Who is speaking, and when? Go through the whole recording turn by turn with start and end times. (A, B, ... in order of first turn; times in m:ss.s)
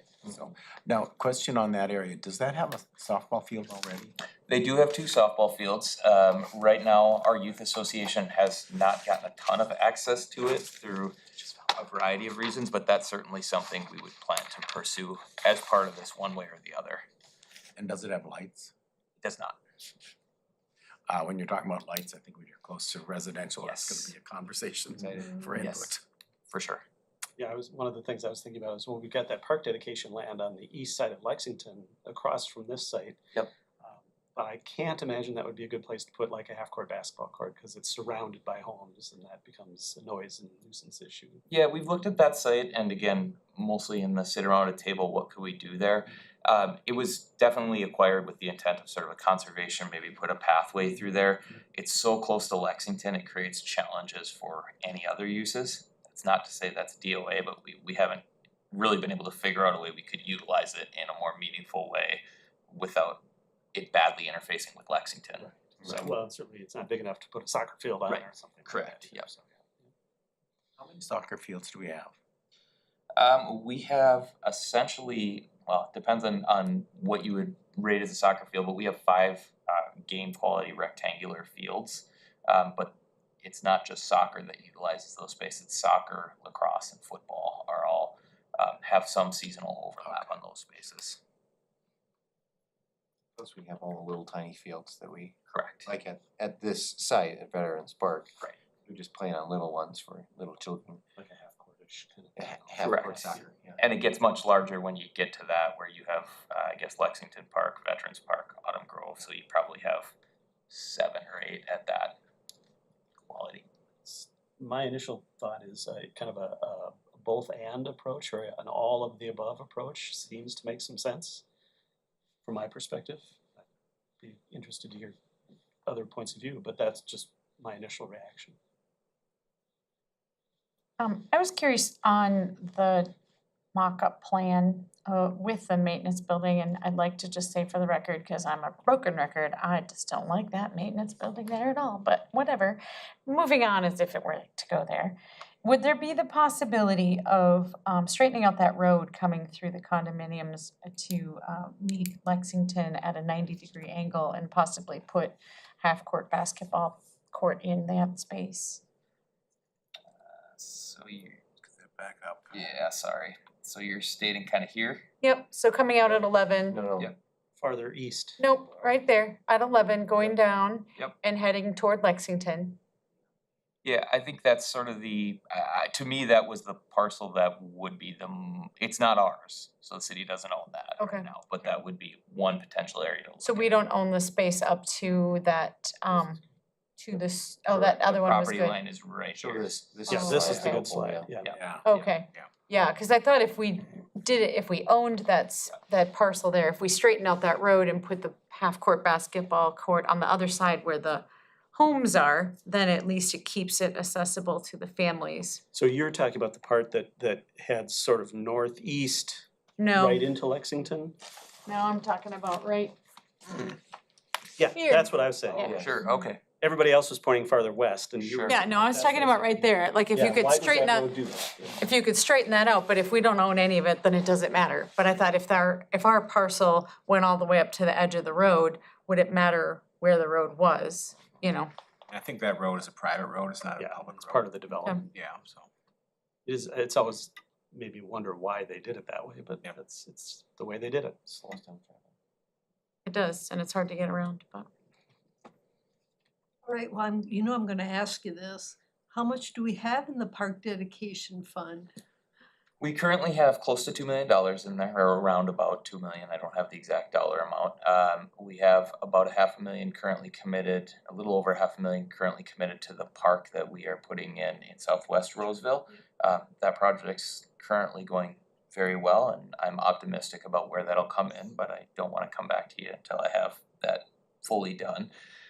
0:00.2-0:04.2 A
0:04.5-0:17.1 B
0:17.8-0:18.7 A
0:19.2-0:19.6 B
0:21.1-0:26.0 A
0:23.6-0:24.1 B
0:25.6-0:26.0 B
0:26.5-0:26.8 B
0:27.4-0:33.2 C
0:33.8-0:41.4 C
0:41.5-1:03.2 B
1:03.7-1:06.1 B
1:05.9-1:09.4 C
1:08.1-1:09.3 B
1:10.8-1:12.1 A
1:13.2-1:31.2 B
1:33.4-1:41.0 D
1:35.5-1:35.9 B
1:41.2-1:43.4 C
1:42.4-1:43.8 D
1:42.8-1:50.1 B
1:50.7-1:52.2 B
1:53.2-1:53.7 B
1:54.1-2:01.4 C
2:02.4-2:03.4 C
2:04.2-2:05.2 C
2:05.8-2:08.6 C
2:11.0-2:13.1 E
2:13.7-2:38.8 E
2:40.2-2:41.4 B
2:41.8-2:42.5 A
2:42.5-2:45.1 B
2:45.2-2:46.8 E
2:46.7-2:47.1 D
2:47.6-2:48.4 C
2:48.4-2:52.8 E
2:53.8-3:03.8 B
3:01.0-3:01.3 E
3:03.4-3:06.4 E
3:07.0-3:08.8 E
3:07.7-3:10.0 B
3:09.4-3:11.3 D
3:10.1-3:10.8 E
3:10.1-3:11.5 C
3:11.4-3:12.1 B
3:11.6-3:11.8 A
3:11.8-3:25.6 E
3:25.7-3:31.2 C
3:29.8-3:30.2 E
3:31.7-3:33.0 E
3:34.6-3:35.8 C
3:34.7-3:35.9 E
3:35.6-3:36.0 D
3:35.6-3:36.4 B
3:36.5-3:41.8 C
3:38.2-3:38.6 B
3:38.5-3:41.1 E
3:41.8-3:51.7 E
3:52.1-3:54.5 A
3:53.8-3:55.1 C
3:55.1-3:55.7 A
3:56.5-4:01.2 C
4:01.3-4:02.0 D
4:03.1-4:04.7 E
4:06.6-4:11.9 F
4:12.8-4:35.1 B